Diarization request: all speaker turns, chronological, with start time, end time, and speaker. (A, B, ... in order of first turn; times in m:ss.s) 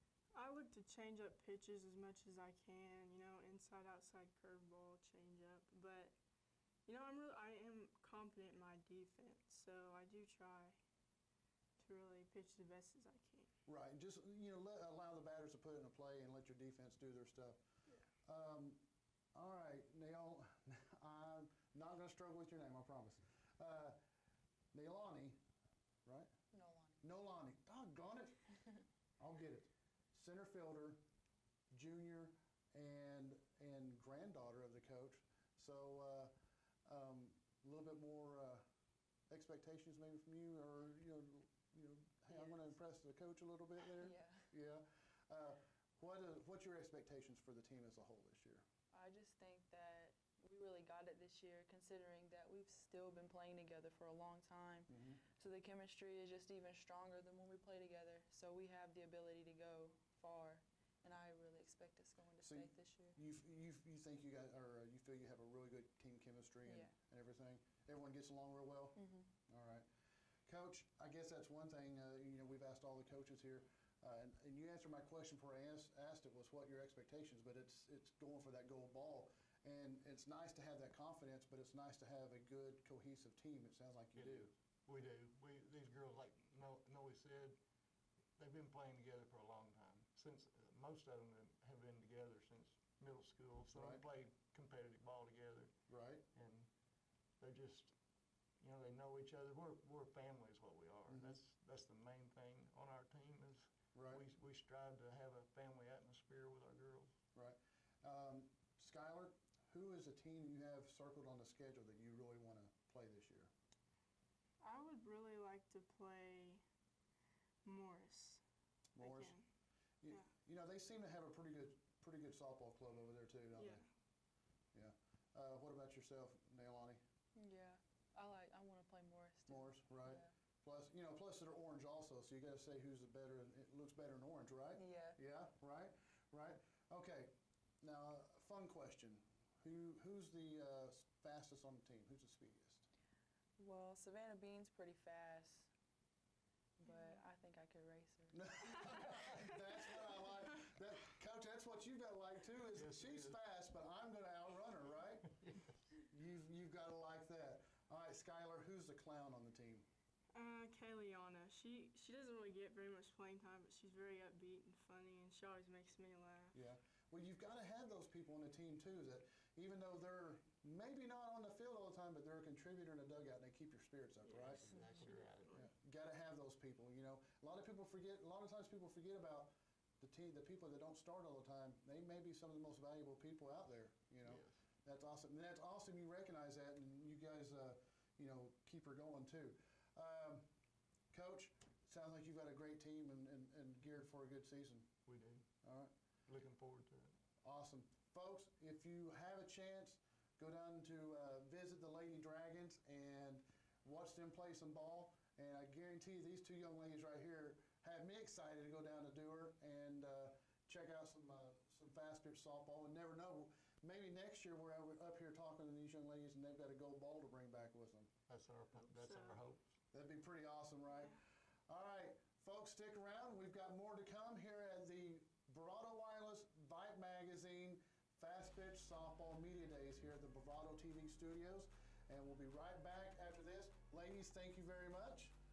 0:00.3-0:06.1 A
0:06.8-0:10.8 A
0:11.8-0:13.5 A
0:13.6-0:17.6 B
0:18.2-0:18.8 B
0:19.3-0:24.0 B
0:24.7-0:25.4 B
0:26.0-0:26.3 B
0:26.5-0:27.0 C
0:27.0-0:28.4 B
0:29.2-0:31.0 B
0:31.7-0:36.3 B
0:36.8-0:38.6 B
0:39.3-0:48.6 B
0:42.3-0:42.7 C
0:44.0-0:44.5 C
0:48.9-1:03.2 C
0:54.9-0:55.2 B
1:02.4-1:09.8 B
1:06.6-1:06.9 C
1:09.0-1:09.3 C
1:10.4-1:24.5 B
1:24.1-1:27.6 D
1:28.4-1:35.7 D
1:33.7-1:34.0 B
1:35.9-1:36.2 B
1:36.3-1:36.7 D
1:37.4-1:37.9 D
1:38.6-1:47.1 D
1:41.1-1:41.4 B
1:43.9-1:44.2 B
1:47.3-1:53.5 B
1:54.6-1:56.6 A
1:57.6-1:58.4 A
1:59.0-1:59.4 B
1:59.0-1:59.4 A
2:00.0-2:03.8 B
2:03.6-2:03.8 A
2:04.7-2:07.0 B
2:07.3-2:10.3 C
2:09.5-2:22.9 B
2:14.7-2:15.2 C
2:23.6-2:25.7 C
2:26.8-2:29.2 C
2:28.3-2:35.3 B
2:32.7-2:33.4 D
2:35.4-2:35.7 D
2:36.0-2:39.8 B
2:40.3-2:46.5 A
2:46.5-2:54.8 B
2:54.2-2:55.7 A
2:54.4-2:55.6 D
2:55.5-3:10.5 B
3:04.2-3:04.6 D
3:11.1-3:14.9 B
3:15.0-3:15.4 D
3:15.6-3:15.9 B
3:16.3-3:17.1 D
3:17.4-3:38.1 B
3:38.3-3:39.7 D
3:38.8-3:39.4 A
3:39.9-3:55.3 B